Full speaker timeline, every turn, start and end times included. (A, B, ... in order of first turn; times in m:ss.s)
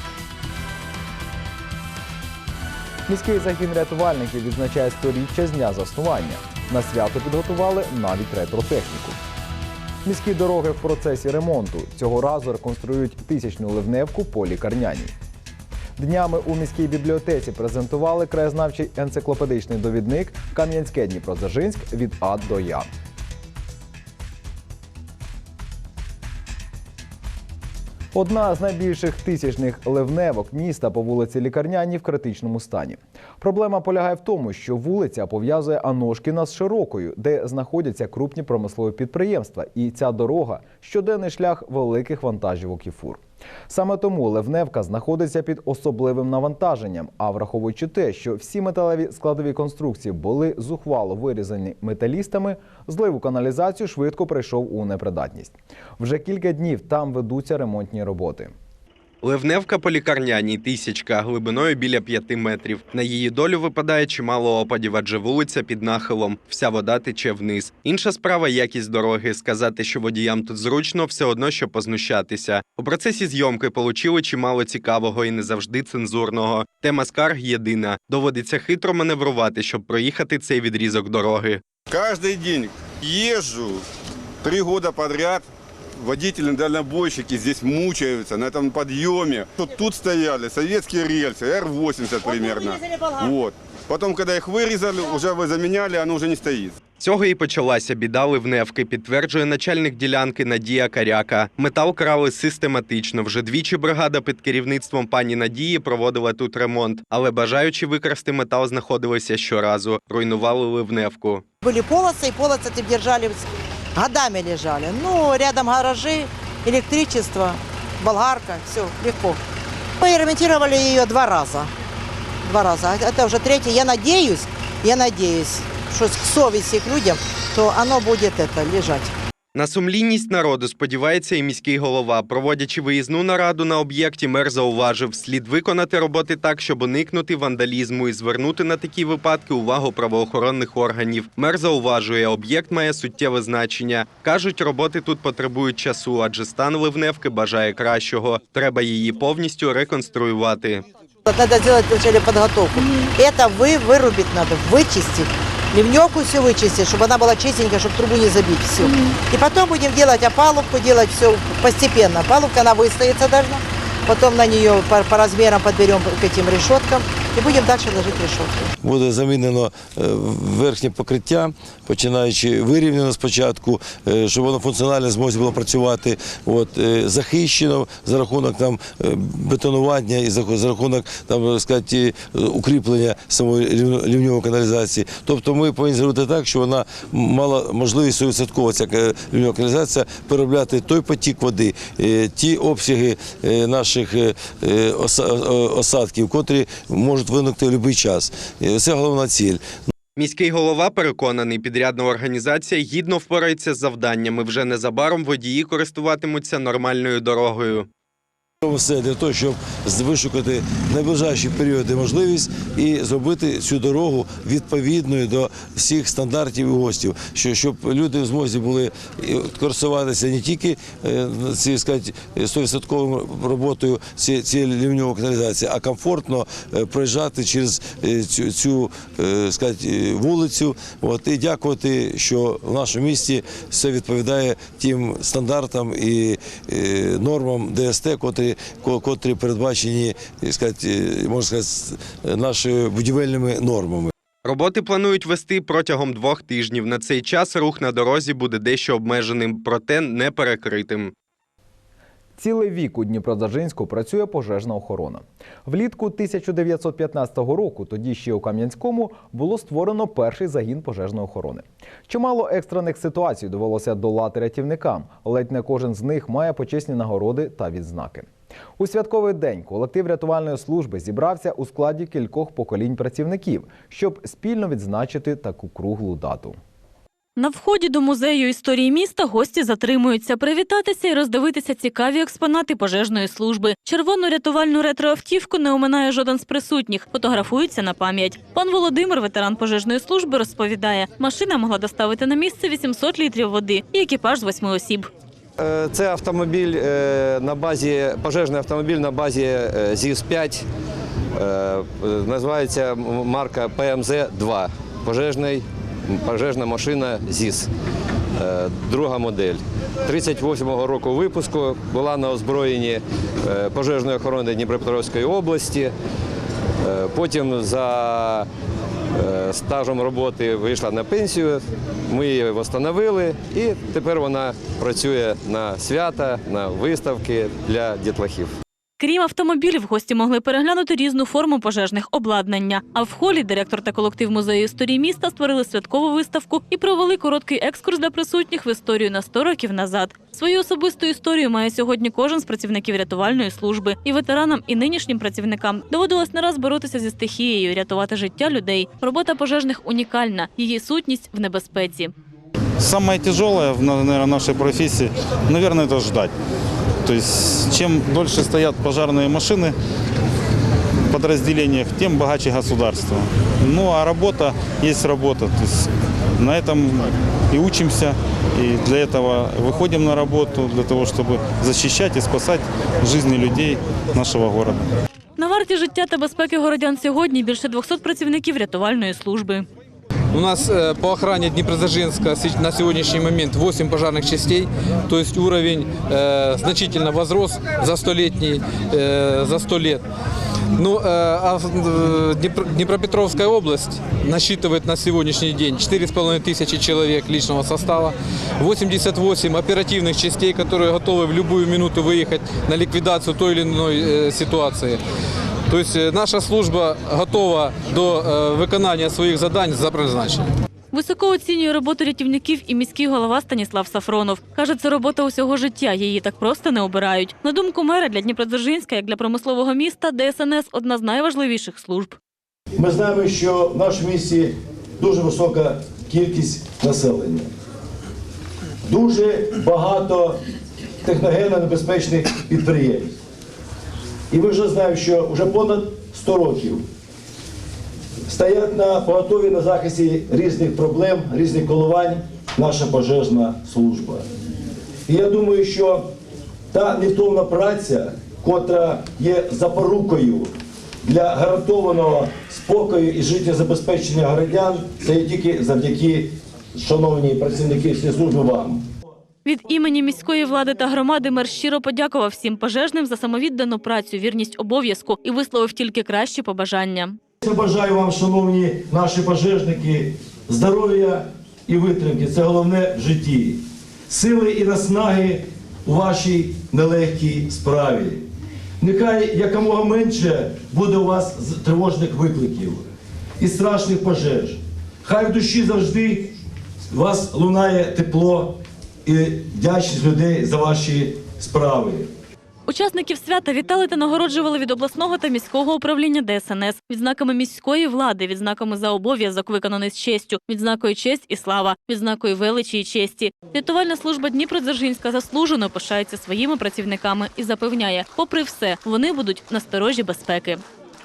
0:03.1-0:09.2 A
0:10.0-0:15.1 A
0:16.0-0:22.9 A
0:28.1-0:58.5 A
0:59.2-1:21.6 B
1:21.9-1:23.8 C
1:24.4-1:25.4 C
1:26.0-1:36.8 C
1:37.0-1:51.4 B
1:51.6-1:53.4 D
1:54.0-1:59.4 D
2:00.0-2:01.7 D
2:02.4-2:09.1 D
2:09.6-2:30.9 B
2:31.3-2:48.7 D
2:32.8-2:33.1 E
2:38.8-2:39.2 E
2:48.8-3:19.8 F
3:20.2-3:27.9 B
3:28.6-4:04.1 F
4:04.4-4:11.1 B
4:12.4-4:36.6 A
4:37.4-4:55.1 E
4:55.6-5:00.7 G
5:01.4-5:07.7 G
5:08.4-5:15.9 G
5:16.8-5:18.5 G
5:19.2-5:28.6 G
5:29.0-5:52.1 E
5:52.8-5:56.4 H
5:57.0-5:59.7 H
6:01.1-6:14.8 H
6:15.4-6:19.7 E
6:20.3-6:30.0 I
6:30.8-6:45.0 I
6:45.7-6:50.5 I
6:50.9-7:02.2 E
7:02.8-7:07.5 J
7:08.8-7:10.4 J
7:11.0-7:13.2 J
7:14.3-7:16.8 J
7:18.3-7:24.3 J
7:25.1-7:26.1 J
7:26.7-7:30.5 J
7:31.0-7:38.8 J
7:39.4-7:47.2 E
7:47.4-7:58.2 J
7:58.8-8:02.8 J
8:03.4-8:06.3 J
8:06.9-8:12.1 J
8:12.7-8:30.6 E